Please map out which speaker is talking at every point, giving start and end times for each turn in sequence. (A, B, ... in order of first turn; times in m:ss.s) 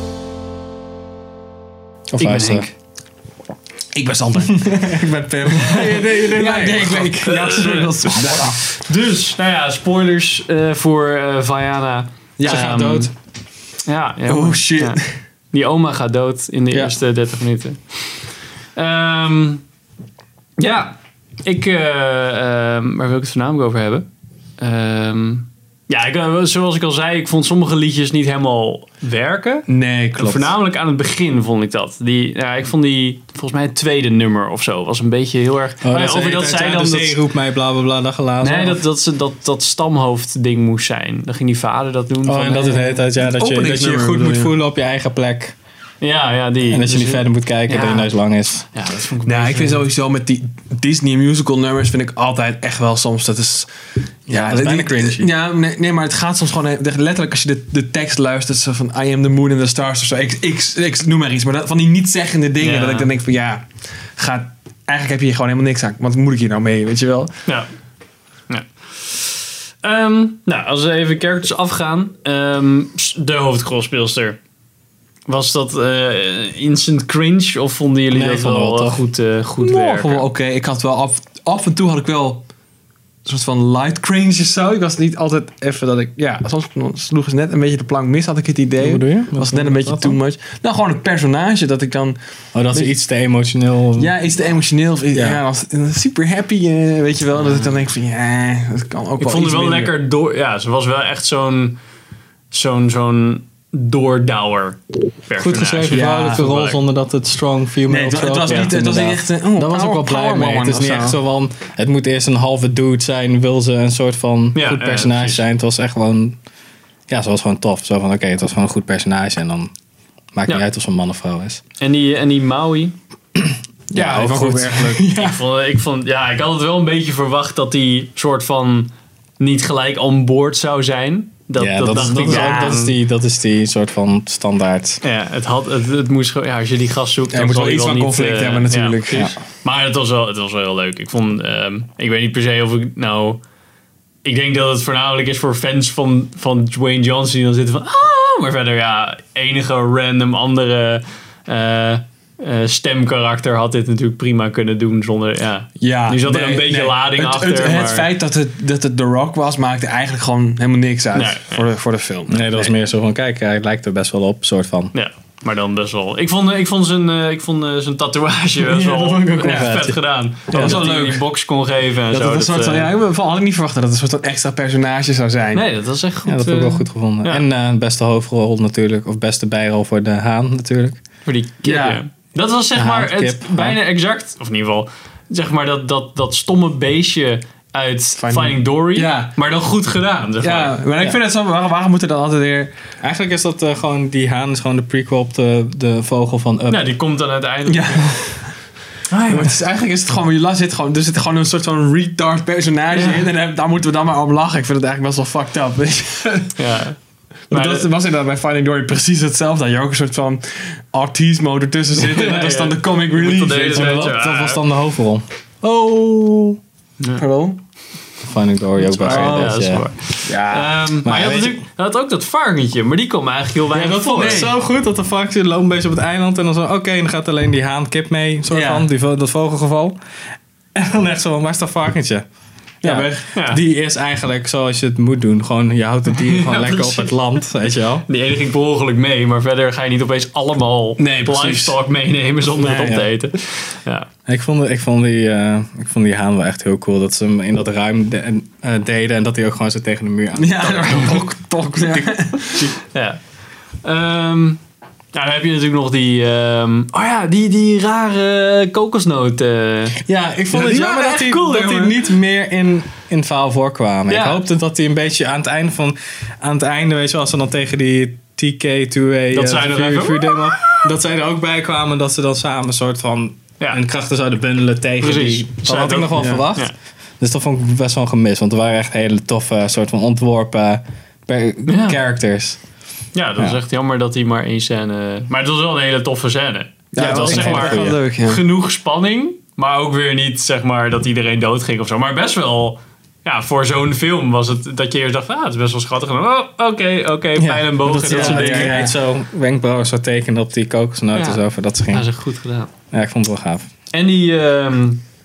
0:02.1-0:02.7 A
0:02.2-0:02.7 B
0:03.9-0:08.6 C
0:04.6-0:07.1 A
0:07.2-0:13.1 B
0:12.4-0:13.1 C
0:12.4-0:13.1 A
0:13.8-0:15.0 B
0:14.3-0:15.1 C
0:15.5-0:19.6 B
0:16.7-0:17.0 C
0:20.6-0:24.1 B
0:24.6-0:37.2 B
0:29.7-0:30.5 C
0:35.8-0:38.8 A
0:38.4-0:43.0 B
0:42.2-0:45.6 A
0:43.2-0:44.5 C
0:46.0-0:48.2 B
0:46.6-0:48.7 A
0:48.7-0:49.9 B
0:49.2-0:53.7 C
0:54.3-0:55.3 A
0:54.3-1:07.3 C
1:02.6-1:03.1 B
1:08.5-1:14.4 B
1:15.3-1:20.3 B
1:18.1-1:19.0 A
1:19.6-1:22.4 C
1:23.2-1:32.2 C
1:28.8-1:30.2 A
1:32.5-1:34.1 A
1:34.0-1:39.9 C
1:35.1-1:35.4 A
1:37.4-1:37.7 B
1:39.2-1:41.8 B
1:42.5-1:46.8 B
1:45.4-1:56.4 A
1:45.9-1:46.5 C
1:47.9-1:51.2 C
1:48.5-1:48.7 B
1:54.5-1:55.4 B
1:57.1-1:59.7 A
2:00.3-2:01.6 A
2:01.8-2:02.9 B
2:03.9-2:05.0 C
2:03.9-2:05.4 A
2:05.1-2:12.9 B
2:11.6-2:15.0 A
2:12.0-2:12.8 C
2:15.0-2:23.4 B
2:17.3-2:19.3 C
2:24.2-2:38.1 B
2:35.8-2:42.7 C
2:41.1-2:41.7 B
2:42.3-2:44.9 A
2:44.9-2:52.9 B
2:48.6-2:50.8 A
2:49.4-2:49.8 C
2:50.5-2:51.2 C
2:52.1-2:55.6 C
2:55.5-2:57.4 B
2:56.2-3:01.0 A
3:01.2-3:11.1 B
3:01.6-3:02.0 C
3:02.7-3:03.8 A
3:08.2-3:09.4 C
3:10.4-3:12.7 C
3:13.0-3:16.9 A
3:16.7-3:18.1 B
3:17.7-3:18.6 C
3:19.1-3:19.5 B
3:19.3-3:26.6 C
3:22.9-3:23.3 B
3:26.6-3:27.0 B
3:27.5-3:27.9 B
3:27.5-3:34.1 C
3:32.0-3:34.6 B
3:33.6-3:35.2 A
3:35.6-3:36.6 C
3:37.2-3:37.6 C
3:38.2-3:39.8 A
3:38.9-3:44.5 B
3:38.9-3:39.7 C
3:40.2-3:40.9 C
3:41.0-3:41.6 A
3:43.7-3:50.0 A
3:44.2-3:44.5 C
3:48.5-3:48.9 C
3:50.7-3:52.2 A
3:52.8-3:53.2 C
3:52.8-3:58.0 A
3:53.3-3:53.6 B
3:56.1-3:57.4 B
3:58.0-4:04.1 B
4:01.0-4:01.8 C
4:02.5-4:03.0 C
4:04.3-4:11.3 A
4:10.4-4:12.7 C
4:12.9-4:13.2 B
4:13.8-4:14.6 B
4:15.1-4:20.0 B
4:20.0-4:42.6 A
4:20.5-4:21.9 B
4:24.1-4:24.4 B
4:29.3-4:30.8 B
4:35.0-4:36.7 B
4:36.1-4:36.4 C
4:41.6-4:42.0 B
4:43.1-4:58.8 B
4:46.9-4:48.4 C
4:46.9-4:48.0 A
4:57.4-5:02.1 A
4:58.1-4:58.9 C
5:01.1-5:02.7 B
5:02.9-5:03.7 A
5:03.9-5:05.0 B